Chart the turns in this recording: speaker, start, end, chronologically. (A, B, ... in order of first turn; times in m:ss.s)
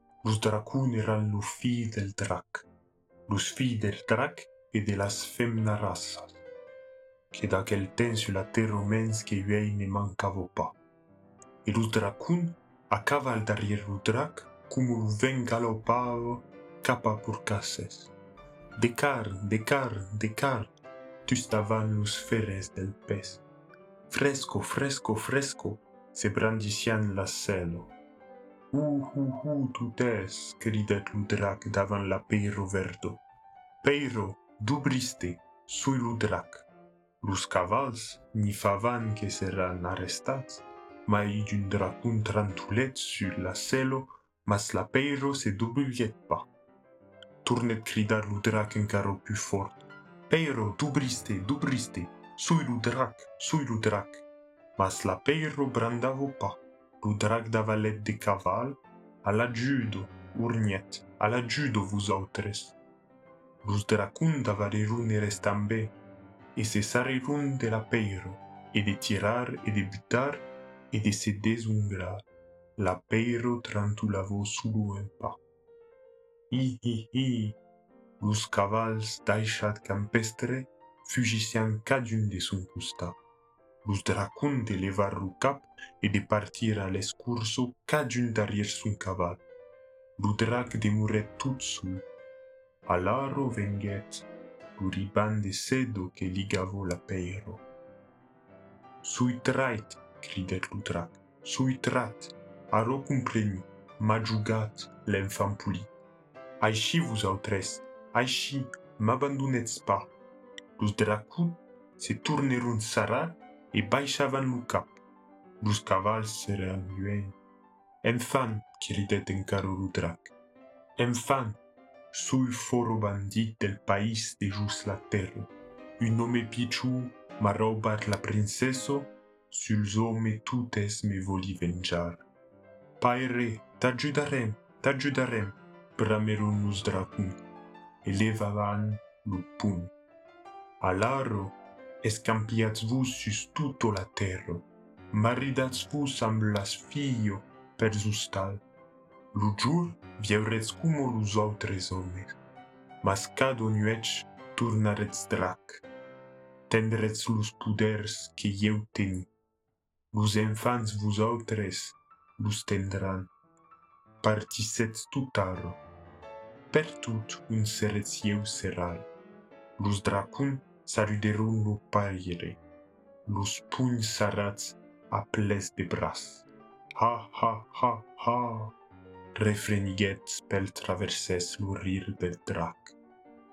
0:00.2-0:02.7 A
0:03.3-0:06.4 A
0:07.3-0:10.8 A
0:11.6-0:18.1 A
0:18.8-0:20.7 A
0:21.2-0:23.4 A
0:24.1-0:27.9 A
0:28.7-0:33.2 A
0:33.8-0:36.7 A
0:37.2-0:46.5 A
0:47.4-0:54.2 A
0:54.8-1:02.8 A
1:03.6-1:06.0 A
1:06.5-1:12.2 A
1:12.8-1:15.4 A
1:16.5-1:17.6 A
1:18.2-1:23.2 A
1:23.8-1:29.4 A
1:30.2-1:32.0 A
1:32.8-1:37.6 A
1:39.0-1:45.9 A
1:46.6-1:50.1 A
1:50.8-1:55.0 A
1:55.6-1:57.3 A
1:58.0-2:00.3 A
2:01.0-2:01.6 A
2:02.1-2:12.2 A
2:13.0-2:17.4 A
2:18.0-2:19.9 A
2:20.8-2:28.6 A
2:29.3-2:32.4 A
2:33.0-2:35.8 A
2:36.7-2:39.3 A
2:40.1-2:43.3 A
2:44.2-2:45.8 A
2:46.7-2:49.1 A
2:49.8-2:52.6 A
2:53.2-2:58.7 A
2:59.3-3:03.0 A